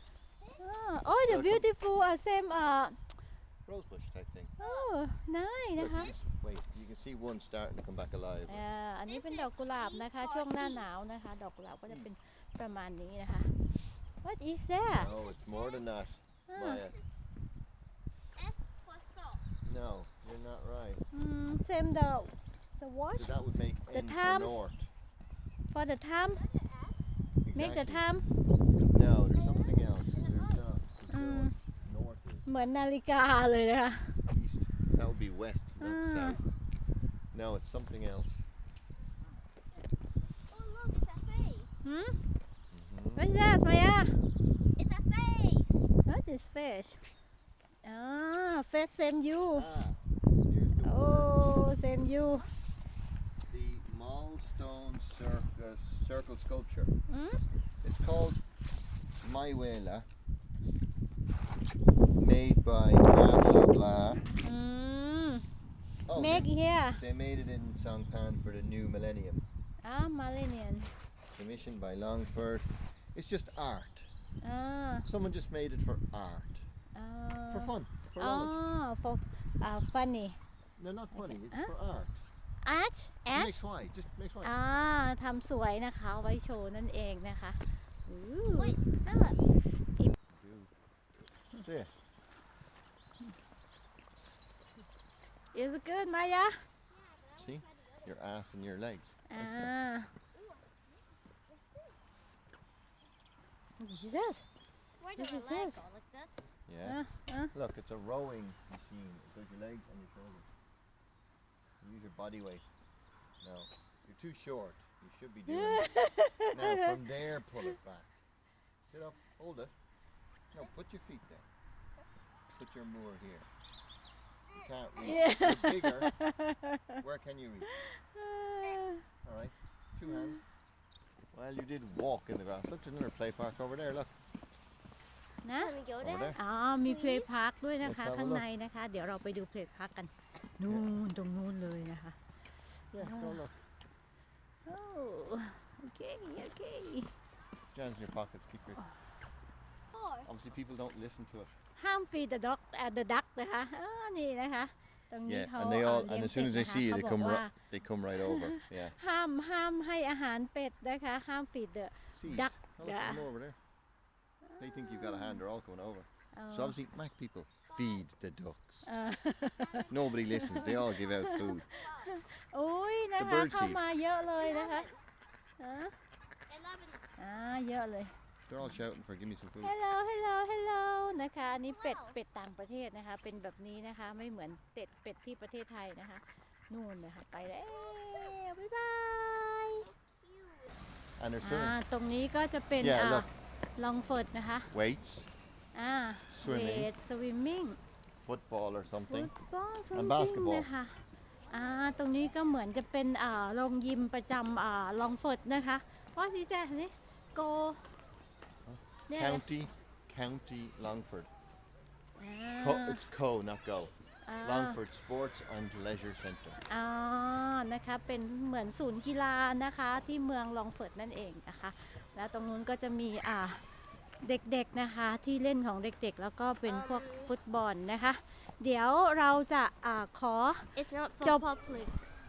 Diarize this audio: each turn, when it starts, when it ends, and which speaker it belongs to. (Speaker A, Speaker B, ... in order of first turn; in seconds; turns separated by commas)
Speaker A: 0.6-3.0, Speaker B: 1.2-1.7, Speaker B: 3.7-4.5, Speaker A: 4.6-6.1, Speaker C: 4.6-4.9, Speaker B: 5.8-8.6, Speaker A: 8.5-15.3, Speaker C: 9.1-10.9, Speaker B: 14.9-17.0, Speaker C: 15.4-15.8, Speaker A: 16.5-16.9, Speaker C: 18.4-19.4, Speaker B: 19.6-21.1, Speaker A: 21.1-23.4, Speaker B: 23.2-24.9, Speaker A: 23.9-24.6, Speaker A: 25.7-26.4, Speaker C: 26.3-27.1, Speaker B: 27.4-28.1, Speaker A: 27.6-28.3, Speaker B: 28.9-32.4, Speaker C: 29.3-30.6, Speaker A: 31.1-31.6, Speaker A: 32.5-34.2, Speaker B: 34.3-36.5, Speaker A: 35.8-36.4, Speaker B: 37.3-38.5, Speaker C: 40.4-41.7, Speaker A: 41.8-42.2, Speaker B: 42.7-43.3, Speaker A: 43.2-44.2, Speaker C: 44.8-45.8, Speaker A: 46.1-47.0, Speaker A: 47.8-49.7, Speaker B: 49.5-51.5, Speaker A: 50.8-52.5, Speaker B: 53.5-56.9, Speaker A: 57.1-57.4, Speaker B: 57.8-58.4, Speaker B: 59.2-60.1, Speaker B: 62.2-64.3, Speaker A: 64.4-65.5, Speaker B: 66.1-69.5, Speaker A: 66.1-67.0, Speaker A: 69.8-70.9, Speaker B: 71.3-74.1, Speaker A: 74.4-75.1, Speaker B: 75.0-76.7, Speaker A: 77.0-80.4, Speaker B: 77.5-78.6, Speaker B: 80.8-82.2, Speaker A: 81.1-81.7, Speaker A: 82.6-83.6, Speaker B: 83.3-84.5, Speaker A: 84.4-89.3, Speaker C: 88.5-89.4, Speaker B: 90.3-90.7, Speaker B: 91.6-91.9, Speaker A: 95.5-96.7, Speaker C: 96.9-98.1, Speaker B: 97.4-99.7, Speaker A: 99.3-100.1, Speaker C: 100.3-100.7, Speaker A: 103.8-104.5, Speaker C: 105.0-106.5, Speaker A: 105.2-105.8, Speaker B: 106.7-110.5, Speaker A: 106.8-107.5, Speaker B: 111.8-112.7, Speaker B: 113.4-116.0, Speaker A: 115.5-116.9, Speaker B: 116.5-118.1, Speaker B: 118.8-119.7, Speaker B: 120.5-121.5, Speaker B: 122.5-123.5, Speaker B: 124.5-126.1, Speaker A: 125.0-127.0, Speaker B: 127.0-127.7, Speaker A: 127.7-129.1, Speaker B: 129.2-130.4, Speaker A: 130.1-130.4, Speaker B: 131.3-134.1, Speaker A: 135.4-135.8, Speaker C: 135.6-137.3, Speaker B: 136.0-136.4, Speaker A: 136.3-142.2, Speaker B: 137.8-138.5, Speaker B: 140.7-141.0, Speaker B: 142.9-143.6, Speaker A: 143.0-143.4, Speaker A: 144.7-147.1, Speaker B: 147.7-148.8, Speaker C: 149.9-150.3, Speaker B: 150.2-151.5, Speaker A: 151.8-157.5, Speaker B: 155.2-159.0, Speaker A: 158.2-163.3, Speaker B: 162.1-163.6, Speaker A: 164.5-165.4, Speaker B: 164.6-168.9, Speaker A: 166.3-166.8, Speaker C: 167.7-168.0, Speaker A: 168.9-174.9, Speaker C: 169.7-170.0, Speaker B: 169.9-171.7, Speaker C: 171.8-172.1, Speaker B: 173.2-173.8, Speaker C: 174.4-175.0, Speaker A: 175.6-175.9, Speaker C: 176.5-177.0, Speaker A: 177.2-178.8, Speaker B: 178.5-179.8, Speaker A: 179.6-189.9, Speaker C: 181.6-182.2, Speaker C: 190.0-190.7, Speaker B: 191.2-191.8, Speaker A: 191.4-194.7, Speaker B: 192.8-193.3, Speaker B: 194.7-195.3, Speaker A: 195.7-197.8, Speaker B: 196.3-196.9, Speaker B: 198.2-199.4, Speaker A: 199.1-207.9, Speaker B: 199.9-200.7, Speaker B: 208.7-211.3, Speaker A: 209.1-209.4, Speaker A: 212.2-213.0, Speaker B: 212.6-216.6, Speaker A: 214.2-214.8, Speaker A: 216.7-223.6, Speaker A: 224.2-231.4, Speaker C: 226.7-227.3, Speaker C: 230.8-232.0